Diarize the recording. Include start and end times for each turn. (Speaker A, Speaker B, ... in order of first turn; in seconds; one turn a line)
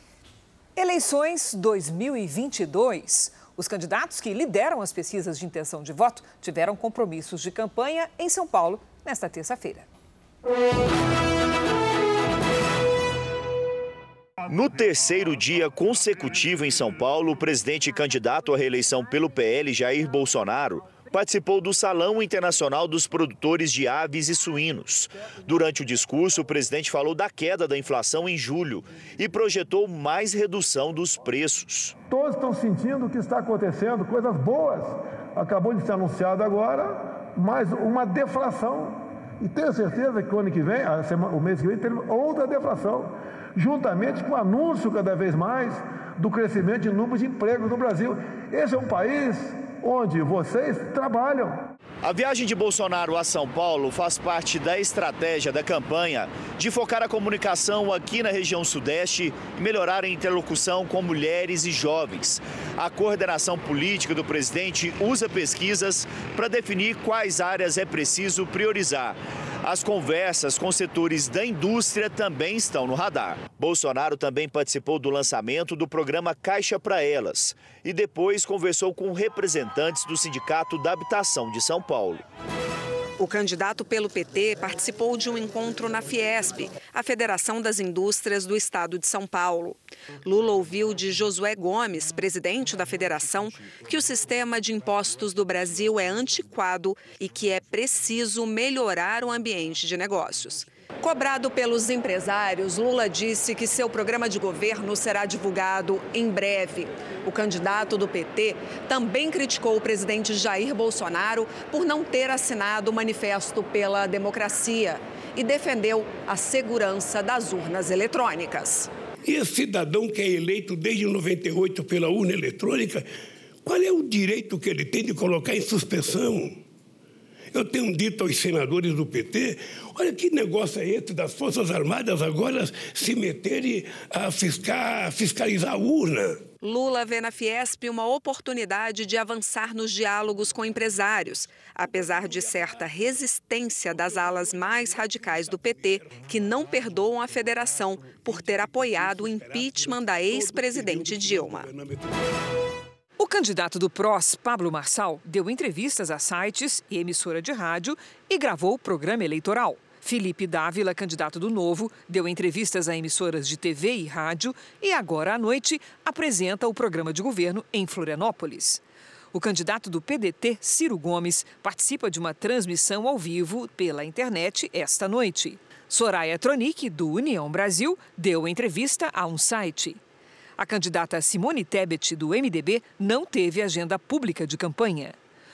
Speaker A: 0.8-9.9
Speaker B: 14.5-32.0
Speaker C: 32.2-38.9
Speaker C: 39.4-43.1
Speaker C: 43.6-51.5
Speaker B: 52.0-82.2
Speaker D: 83.2-118.9
Speaker E: 119.2-123.1
Speaker E: 123.7-126.6
Speaker E: 127.5-136.5
Speaker D: 136.6-151.7
Speaker E: 149.7-152.1
Speaker A: 153.2-168.8
Speaker A: 169.3-180.0
Speaker A: 180.6-185.2